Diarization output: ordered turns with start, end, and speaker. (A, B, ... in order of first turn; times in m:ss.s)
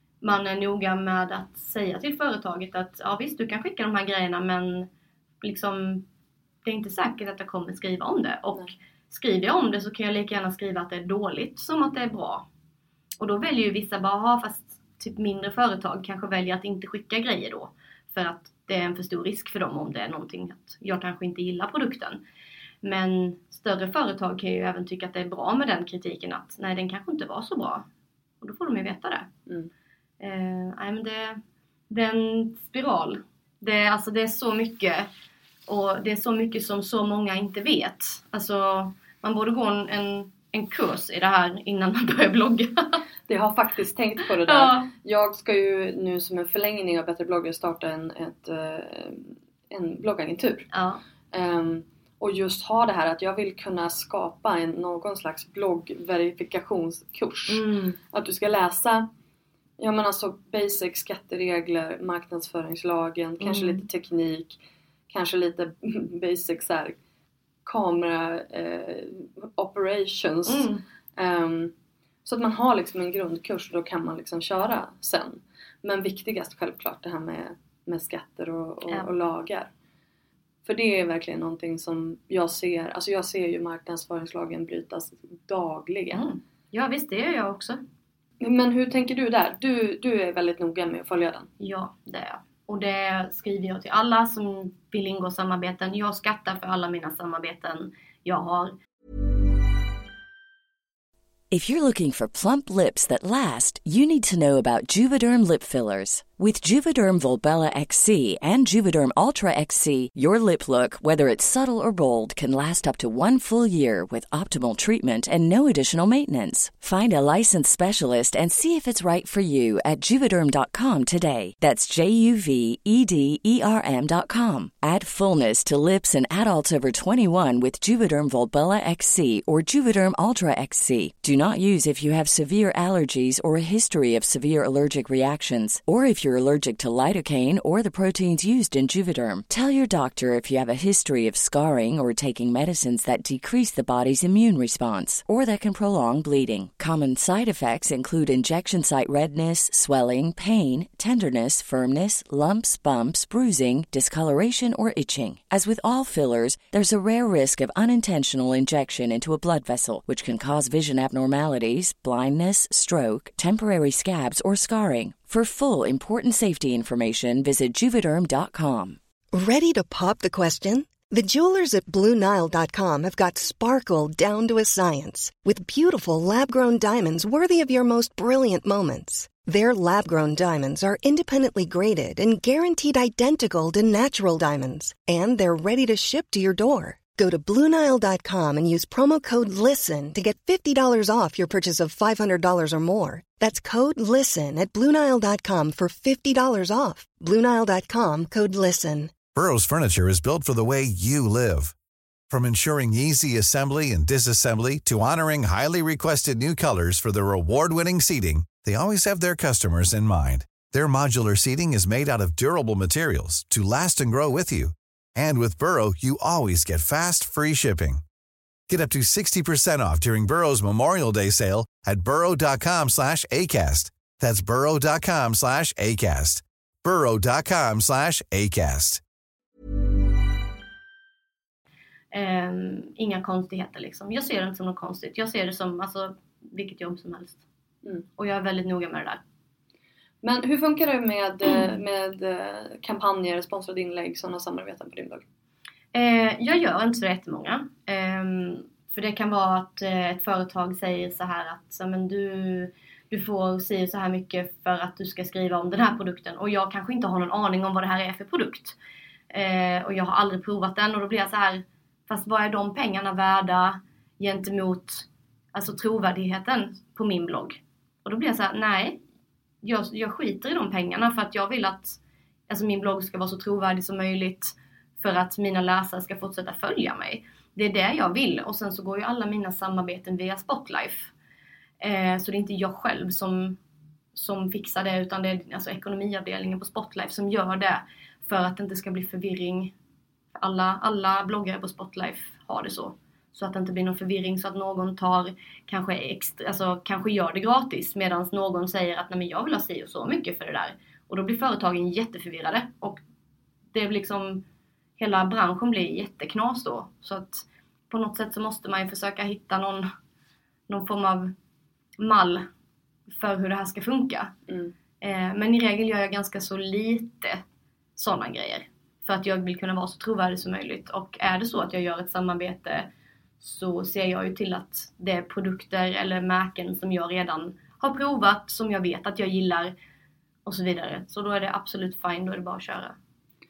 0:00.2-0:04.9 A
0:05.4-0:06.0 A
0:06.6-0:12.4 A
0:13.2-0:22.2 A
0:22.8-0:27.8 A
0:28.4-0:29.3 A
0:30.2-0:35.1 A
0:35.7-0:43.0 A
0:43.3-0:50.7 B
0:44.5-0:44.9 A
0:50.7-0:51.0 A
0:51.3-0:59.1 B
0:57.5-0:58.0 A
0:59.8-1:07.0 B
1:03.4-1:03.8 A
1:07.6-1:11.7 B
1:10.5-1:10.8 A
1:12.2-1:19.7 B
1:20.6-1:26.3 B
1:26.1-1:27.8 A
1:28.4-1:31.5 B
1:31.6-1:38.7 A
1:41.5-2:49.0 C
2:49.3-3:19.2 D
3:19.3-3:21.7 E
3:22.3-3:38.0 E
3:38.7-3:49.0 E
3:52.1-3:57.4 A
3:58.2-3:59.2 A
4:00.2-4:05.2 B
4:05.9-4:18.8 A
4:19.3-4:29.0 A
4:29.6-4:41.1 A
4:41.8-4:43.6 A
4:44.1-4:49.7 A
4:50.3-5:03.0 A
5:03.7-5:04.4 A
5:05.0-5:09.9 A
5:10.7-5:11.3 A
5:12.0-5:12.5 A
5:13.1-5:14.3 A
5:14.5-5:14.7 B
5:15.0-5:17.4 A
5:18.0-5:22.9 A
5:23.4-5:29.7 A
5:30.4-5:33.0 A